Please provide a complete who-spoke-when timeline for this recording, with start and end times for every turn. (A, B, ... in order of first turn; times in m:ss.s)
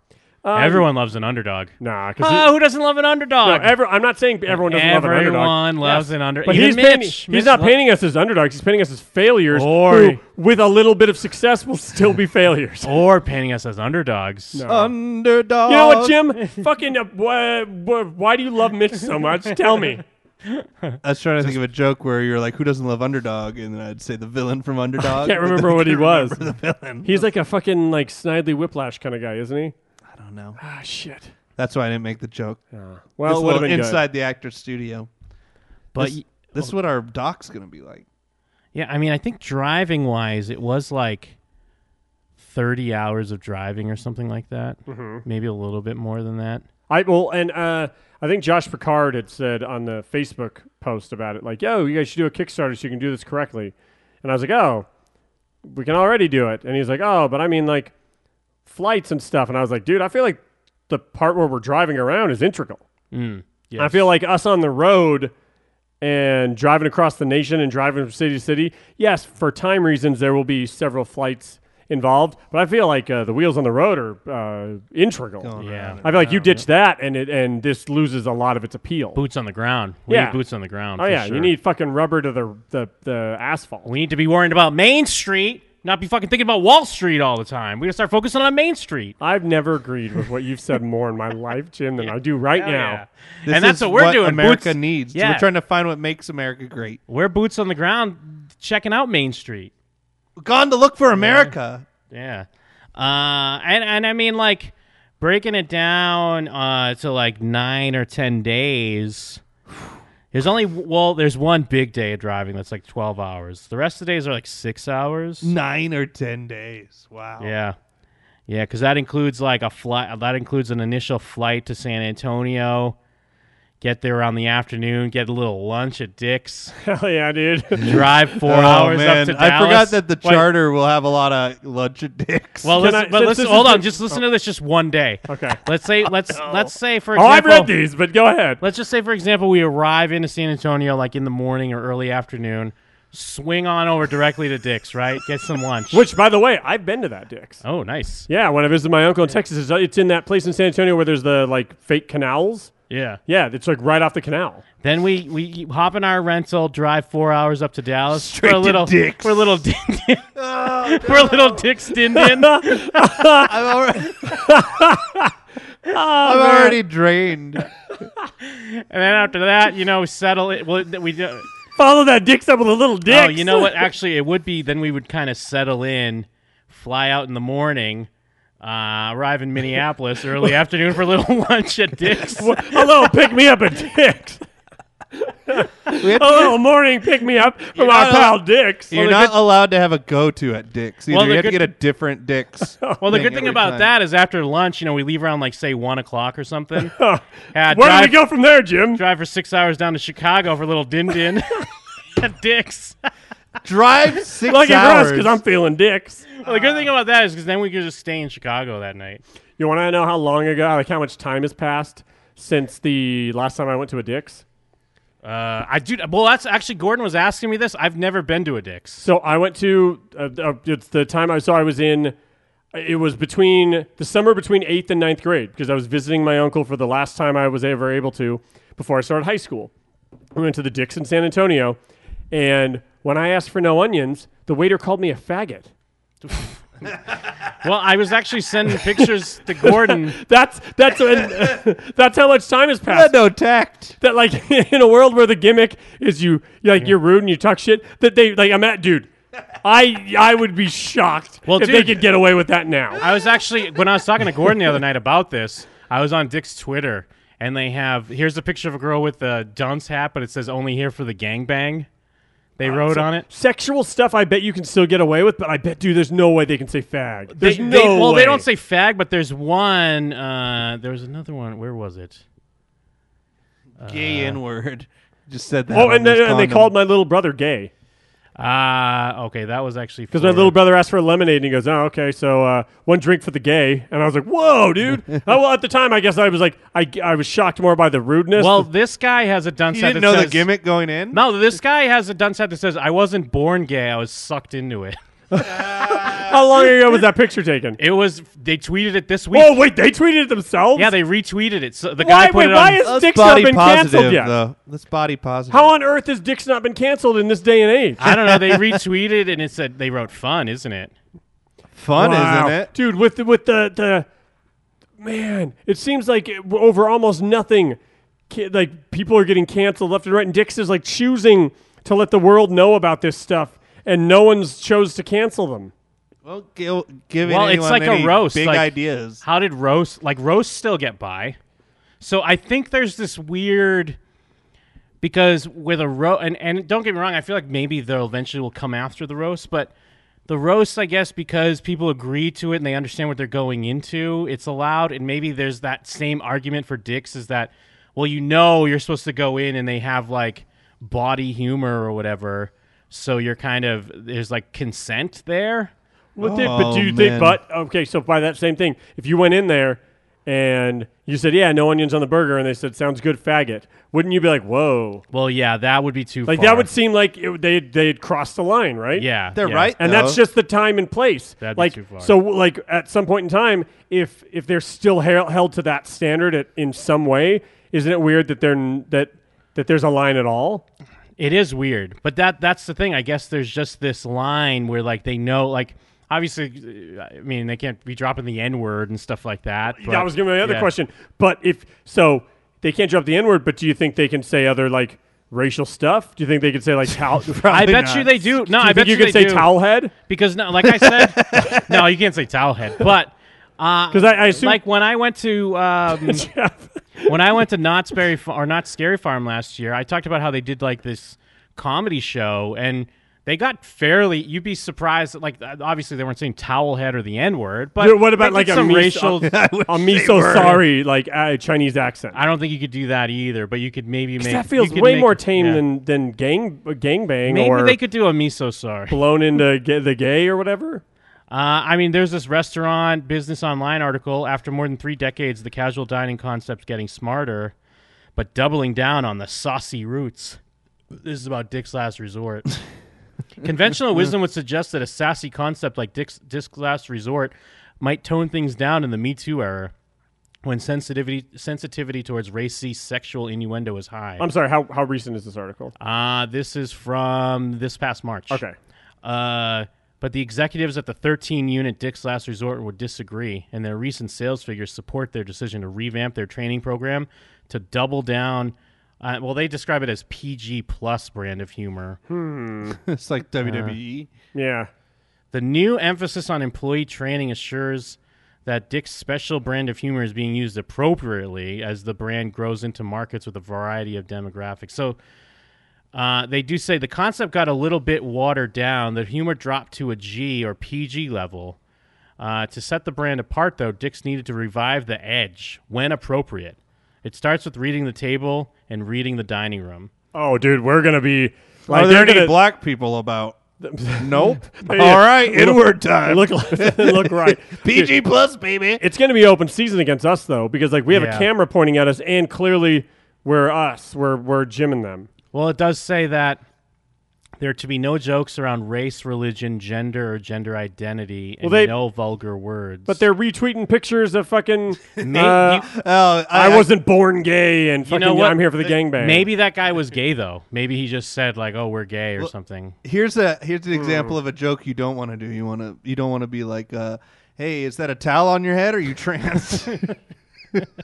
0:00.4-0:00.9 A
0:00.5-0:03.8 B
0:01.8-0:02.5 A
0:03.4-0:12.9 A
0:04.5-0:07.7 B
0:09.5-0:10.2 B
0:12.8-0:14.6 B
0:14.5-0:14.9 A
0:14.6-0:16.2 C
0:15.7-0:20.0 A
0:20.4-0:21.5 B
0:21.0-0:27.2 C
0:25.1-0:26.4 A
0:27.0-0:29.7 A
0:30.1-0:30.6 C
0:30.6-0:31.3 A
0:31.6-0:32.6 C
0:32.7-0:34.0 A
0:33.2-0:35.1 C
0:35.9-0:36.7 B
0:35.9-0:38.0 C
0:38.7-0:41.4 B
0:42.4-0:46.6 B
0:44.9-0:45.2 A
0:46.9-0:54.9 A
0:55.6-0:57.9 A
0:58.6-1:02.8 A
1:03.1-1:04.1 B
1:03.8-1:05.3 A
1:06.0-1:19.2 A
1:15.4-1:16.6 C
1:15.6-1:16.6 B
1:19.1-1:21.5 B
1:20.1-1:20.4 A
1:21.0-1:23.9 A
1:23.8-1:29.2 B
1:29.2-1:33.0 A
1:32.0-1:35.5 B
1:33.4-1:37.0 C
1:37.1-1:39.7 B
1:40.4-1:41.8 C
1:41.2-1:41.5 B
1:42.1-1:49.4 B
1:50.3-1:55.5 B
1:55.4-1:57.5 C
1:57.4-1:57.8 B
1:58.5-2:03.0 B
2:03.8-2:06.7 B
2:06.8-2:08.0 A
2:07.8-2:10.5 B
2:08.0-2:12.8 C
2:12.6-2:17.7 B
2:12.7-2:14.2 A
2:15.3-2:15.6 A
2:16.3-2:16.7 C
2:17.1-2:18.6 A
2:18.6-2:26.0 B
2:25.9-2:27.6 A
2:27.6-2:28.3 B
2:28.3-2:34.6 A
2:32.9-2:33.2 B
2:34.8-2:43.0 B
2:38.1-2:39.6 C
2:40.3-2:41.7 C
2:42.1-2:43.5 A
2:43.4-2:44.4 C
2:44.2-2:45.3 A
2:45.9-2:46.8 A
2:46.2-2:47.7 C
2:48.4-2:51.4 B
2:51.8-2:53.9 A
2:53.1-2:58.1 B
2:58.6-3:02.8 B
3:02.3-3:04.4 A
3:05.2-3:08.9 A
3:05.9-3:06.6 C
3:07.7-3:13.9 C
3:08.9-3:09.4 B
3:11.1-3:11.7 B
3:12.8-3:13.3 A
3:13.0-3:16.9 B
3:16.8-3:19.0 A
3:17.5-3:18.3 B
3:18.9-3:23.0 B
3:23.6-3:25.4 C
3:24.4-3:26.4 A
3:26.4-3:29.2 B
3:29.6-3:34.4 A
3:35.2-3:39.0 B
3:39.0-3:42.1 A
3:42.7-3:49.7 A
3:50.3-3:51.8 A
3:52.3-3:55.7 A
3:56.3-3:56.6 B
3:57.6-4:00.2 B
3:58.7-3:59.1 A
3:59.6-4:03.2 A
4:02.9-4:04.0 C
4:04.0-4:09.1 A
4:09.6-4:13.0 A
4:11.4-4:12.1 B
4:13.0-4:21.9 B
4:22.6-4:23.2 B
4:22.6-4:28.4 A
4:27.3-4:32.2 B
4:33.8-4:34.4 B
4:33.8-4:36.7 C
4:35.7-4:37.7 A
4:38.4-4:40.6 B
4:40.1-4:48.7 A
4:48.4-4:50.5 B
4:49.7-4:51.2 C
4:51.1-4:55.0 B
4:55.3-4:57.8 A
4:55.4-4:56.3 C
4:57.8-4:59.6 B
4:59.3-5:00.9 A
5:00.7-5:02.9 B
5:02.0-5:04.3 A
5:02.8-5:05.7 C
5:05.5-5:08.0 A
5:08.0-5:10.9 B
5:08.0-5:08.8 C
5:11.8-5:12.7 C
5:12.0-5:14.1 A
5:15.0-5:17.8 A
5:18.3-5:25.7 A
5:26.2-5:29.2 C
5:27.2-5:31.4 B
5:32.0-5:34.0 B
5:35.0-5:39.7 B
5:40.3-5:55.7 B
5:56.2-6:05.0 A
5:56.2-5:57.4 C
6:05.1-6:06.7 B
6:06.3-6:09.1 A
6:09.0-6:09.7 B
6:09.3-6:10.2 C
6:09.8-6:20.6 A
6:11.4-6:12.1 B
6:21.2-6:30.7 B
6:29.7-6:37.4 A
6:37.1-6:38.4 C
6:37.5-6:46.3 B
6:38.5-6:39.9 A
6:40.6-6:41.8 C
6:43.9-6:44.6 A
6:45.9-6:47.2 A
6:47.1-6:59.3 B
6:57.8-7:02.2 A
6:59.2-7:00.6 C
7:02.1-7:05.6 B
7:04.2-7:07.8 A
7:07.3-7:09.0 B
7:08.9-7:10.8 A
7:11.3-7:17.5 B
7:18.2-7:20.4 B
7:20.9-7:22.5 B
7:23.4-7:29.7 B
7:30.4-7:34.2 B
7:34.2-7:35.7 A
7:35.8-7:38.4 B
7:38.3-7:38.6 A
7:39.0-7:52.0 B
7:52.1-7:52.8 A
7:52.6-7:54.1 C
7:53.4-7:53.8 B
7:54.3-7:54.7 A
7:55.3-8:05.0 B
8:05.9-8:11.6 B
8:12.2-8:19.9 B
8:20.1-8:22.4 A
8:21.7-8:23.4 C
8:23.6-8:27.9 A
8:24.0-8:28.8 C
8:28.8-8:35.1 A
8:30.9-8:31.3 B
8:35.3-8:36.4 B
8:37.4-8:43.0 B
8:41.4-8:41.7 A
8:42.9-8:45.6 A
8:45.0-8:45.7 B
8:45.0-8:46.7 C
8:46.3-8:49.3 A
8:47.8-8:52.8 B
8:52.8-9:00.0 C
8:53.7-8:54.1 A